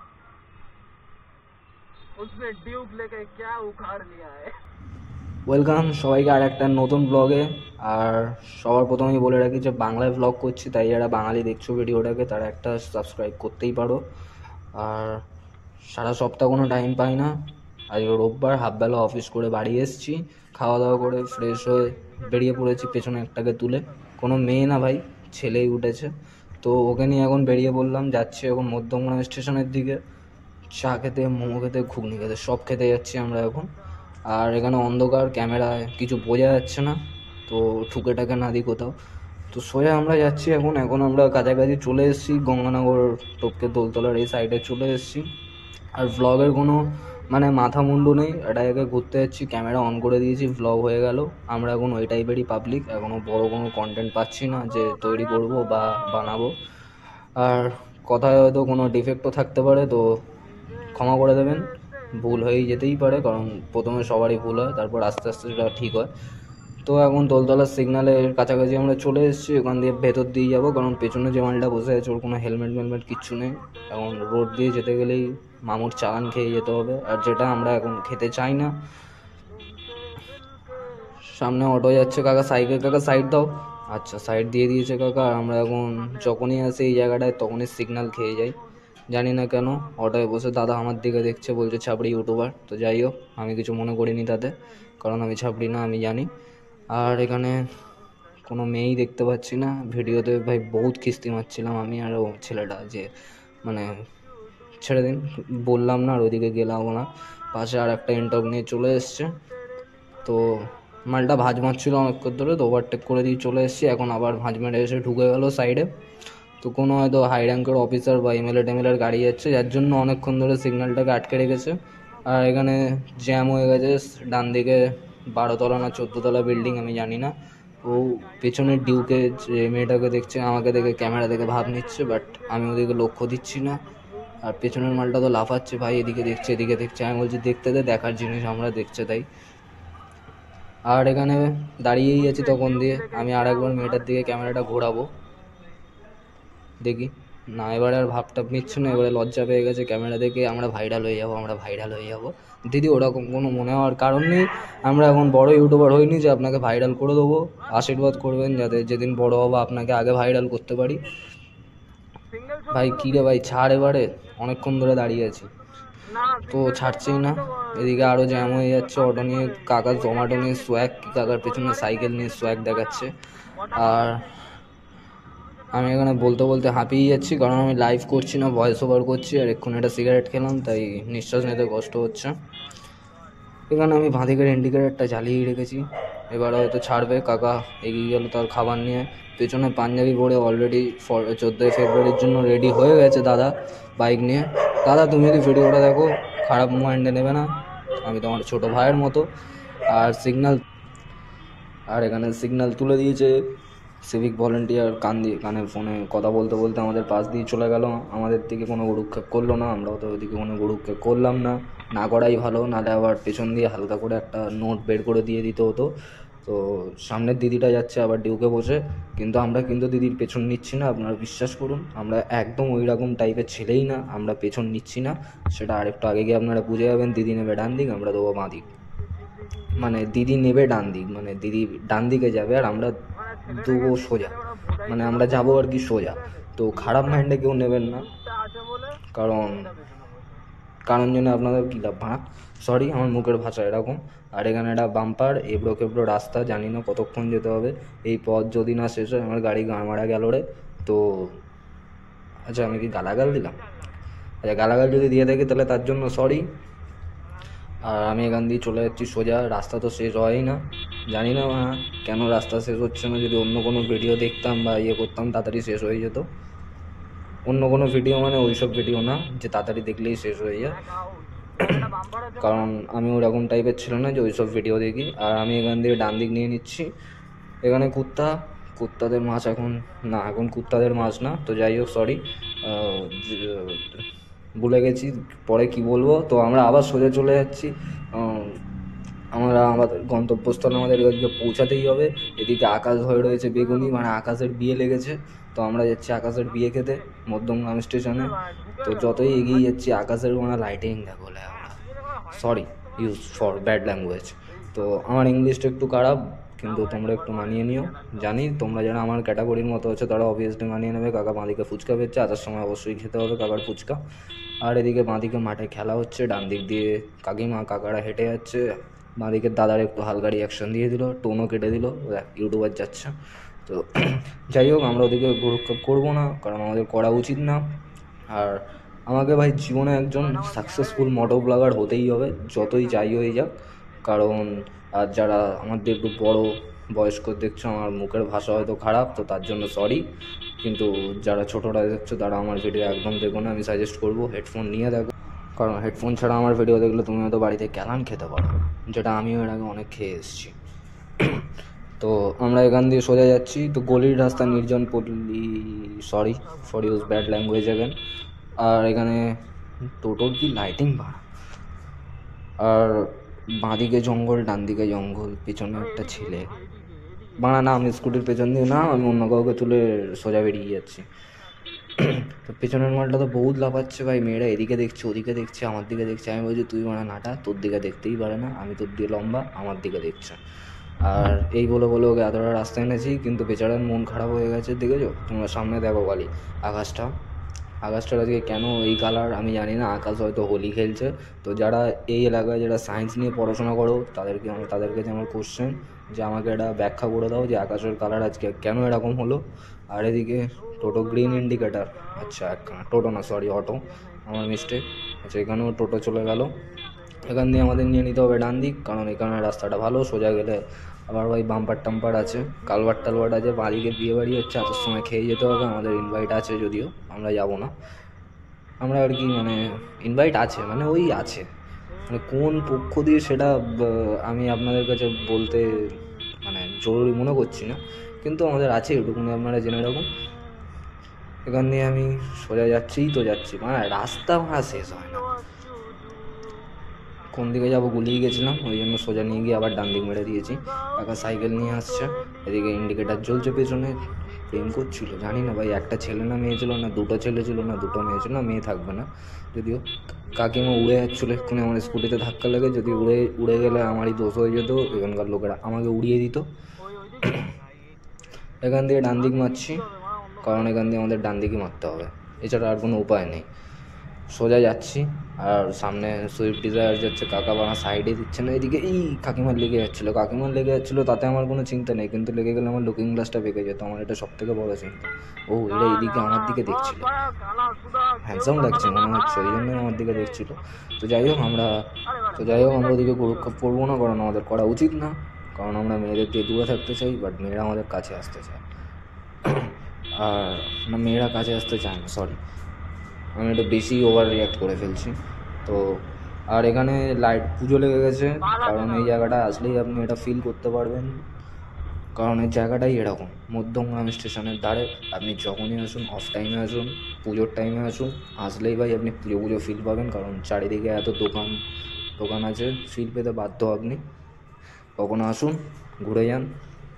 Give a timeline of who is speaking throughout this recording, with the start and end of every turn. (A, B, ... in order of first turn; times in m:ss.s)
0:02.2-0:04.5 A
0:05.5-0:14.0 B
0:14.8-0:15.2 B
0:15.9-0:17.3 B
0:17.9-0:30.0 B
0:30.7-0:33.7 B
0:34.3-0:39.0 B
0:39.5-0:45.3 B
0:46.0-0:56.6 B
0:57.4-1:00.2 B
1:00.9-1:06.1 B
1:06.8-1:18.8 B
1:19.5-1:21.1 A
1:21.2-1:28.6 B
1:29.1-1:36.3 B
1:36.9-1:37.7 B
1:38.4-1:43.9 B
1:44.8-1:49.4 B
1:50.2-1:55.9 B
1:56.6-2:13.8 B
2:08.9-2:09.5 A
2:10.7-2:13.7 A
2:14.4-2:19.2 B
2:20.9-2:25.1 B
2:22.2-2:24.5 A
2:26.8-2:41.0 B
2:28.7-2:29.2 A
2:34.6-2:35.5 A
2:42.3-2:43.3 A
2:42.7-2:45.5 B
2:46.0-2:54.4 A
2:46.5-2:53.2 B
2:53.7-2:54.2 B
2:55.7-3:02.3 B
3:03.7-3:19.3 B
3:19.8-3:20.6 B
3:21.9-3:23.5 B
3:24.0-3:35.9 B
3:36.4-3:48.6 B
3:49.2-3:49.8 A
3:49.8-3:52.9 B
3:53.1-3:57.2 A
3:53.5-3:58.1 B
3:57.9-4:00.4 A
3:59.1-3:59.7 B
4:00.8-4:11.4 B
4:12.5-4:13.6 B
4:14.4-4:16.4 B
4:17.8-4:26.2 B
4:27.4-4:30.8 B
4:30.6-4:32.7 A
4:32.4-4:36.9 B
4:37.6-4:43.9 B
4:44.6-4:48.6 B
4:49.3-4:58.3 B
4:53.3-4:54.0 A
4:56.6-4:57.1 A
4:58.1-4:59.7 A
4:58.8-5:01.8 B
5:01.7-5:03.6 A
5:02.3-5:14.0 B
5:04.5-5:05.1 A
5:06.6-5:08.6 A
5:14.6-5:18.6 B
5:19.2-5:23.1 B
5:23.6-5:27.7 B
5:28.3-5:33.5 B
5:30.2-5:31.8 A
5:32.6-5:33.2 A
5:34.0-5:50.5 B
5:51.2-5:51.5 B
5:52.0-5:58.0 B
5:54.1-5:54.6 A
5:56.4-5:57.4 A
5:58.6-5:59.4 B
6:00.0-6:01.2 B
6:02.6-6:06.5 B
6:05.8-6:08.2 A
6:07.4-6:11.0 B
6:12.0-6:20.4 B
6:21.0-6:27.1 B
6:27.8-6:46.6 B
6:40.6-6:43.2 A
6:43.8-6:44.8 A
6:47.2-6:57.7 B
6:58.8-7:01.4 B
7:02.1-7:10.1 B
7:11.4-7:15.3 B
7:15.4-7:16.4 A
7:17.3-7:36.4 B
7:21.9-7:22.3 A
7:36.8-7:37.7 A
7:38.6-7:39.8 B
7:38.9-7:40.9 A
7:40.4-7:43.5 B
7:44.3-7:57.1 B
7:55.7-8:00.4 A
7:58.2-8:08.6 B
8:02.0-8:03.5 A
8:09.4-8:12.4 B
8:13.4-8:15.1 B
8:15.6-8:21.2 B
8:18.4-8:19.3 A
8:22.1-8:31.6 B
8:32.2-8:34.0 B
8:35.0-8:36.5 B